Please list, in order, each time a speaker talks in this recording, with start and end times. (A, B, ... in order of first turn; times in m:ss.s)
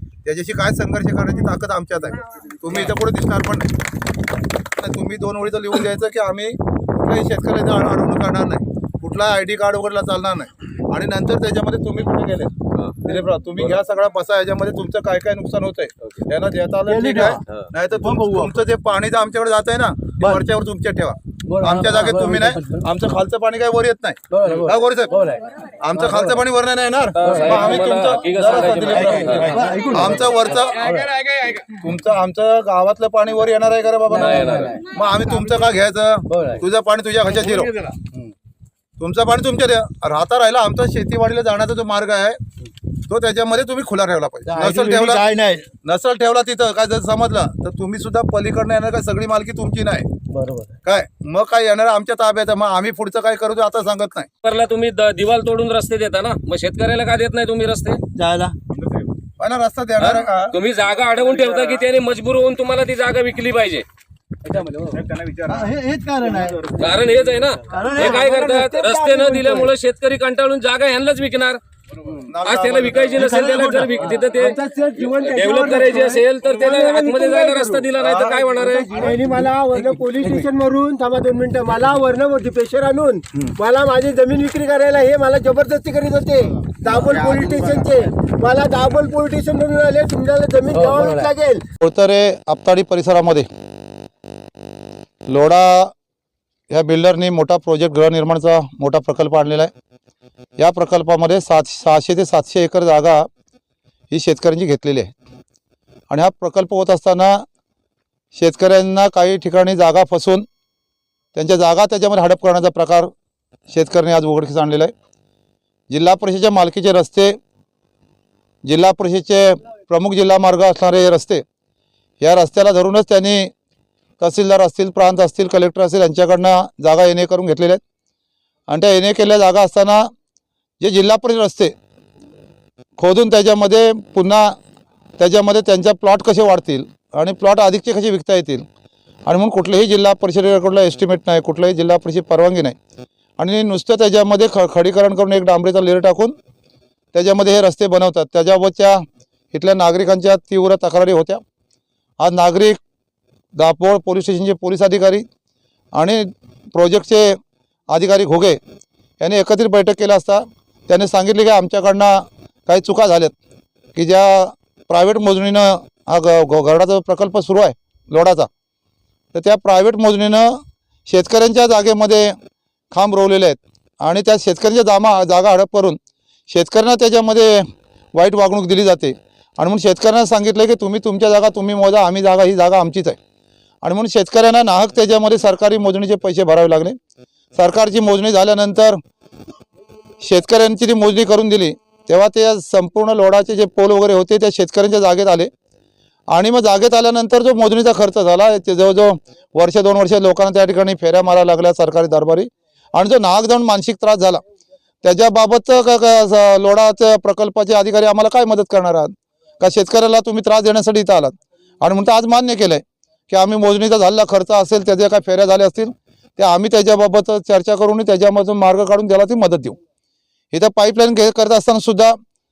0:00.2-0:03.8 A
0:04.6-0:31.0 A
0:12.7-0:13.8 B
0:16.9-0:17.4 C
0:18.0-0:18.5 C
0:21.4-0:23.0 C
0:24.3-0:26.4 C
0:27.2-0:29.7 B
0:27.2-0:27.6 C
0:28.9-0:31.2 C
0:31.6-0:37.7 A
0:34.1-0:34.8 C
0:34.1-0:34.8 B
0:36.3-0:36.6 C
0:37.5-0:38.3 C
0:39.0-0:42.4 A
0:43.0-0:45.3 A
0:44.4-0:45.7 C
0:45.8-0:50.1 A
0:50.3-0:50.7 C
0:50.8-0:54.3 A
0:54.4-0:58.0 B
0:58.1-0:58.6 C
0:58.7-1:00.6 A
1:00.0-1:03.8 B
1:01.3-1:01.8 A
1:04.4-1:07.0 C
1:05.0-1:05.7 A
1:06.7-1:11.6 B
1:07.7-1:08.1 C
1:07.7-1:09.7 D
1:12.2-1:13.9 A
1:12.4-1:14.6 B
1:13.2-1:14.2 C
1:14.3-1:17.9 D
1:15.1-1:19.0 B
1:18.0-1:18.5 A
1:18.6-1:31.6 D
1:30.7-1:31.3 C
1:31.8-1:33.5 A
1:35.3-1:35.9 A
1:36.7-1:39.7 A
1:40.6-1:43.3 A
1:44.1-1:45.1 A
1:46.1-1:47.4 A
1:48.3-1:50.4 A
1:51.3-1:53.1 A
1:53.7-1:54.9 A
1:55.9-1:57.4 A
1:58.6-2:01.4 A
2:02.2-2:03.5 A
2:04.2-2:07.8 A
2:08.7-2:10.1 A
2:10.8-2:11.7 A
2:13.0-2:14.6 A
2:15.2-2:18.6 A
2:19.3-2:22.8 A
2:23.4-2:26.4 A
2:27.1-2:31.4 A
2:32.2-2:32.8 A
2:33.6-2:35.2 A
2:35.9-2:37.4 A
2:37.9-2:38.6 A
2:39.2-2:43.3 A
2:43.9-2:48.5 A
2:49.3-2:52.4 A
2:52.9-2:56.0 A
2:56.5-3:03.2 A
3:03.8-3:07.0 A
3:07.5-3:09.0 A
3:10.2-3:15.5 A
3:16.3-3:24.4 A
3:25.0-3:39.8 A
3:40.5-3:42.2 A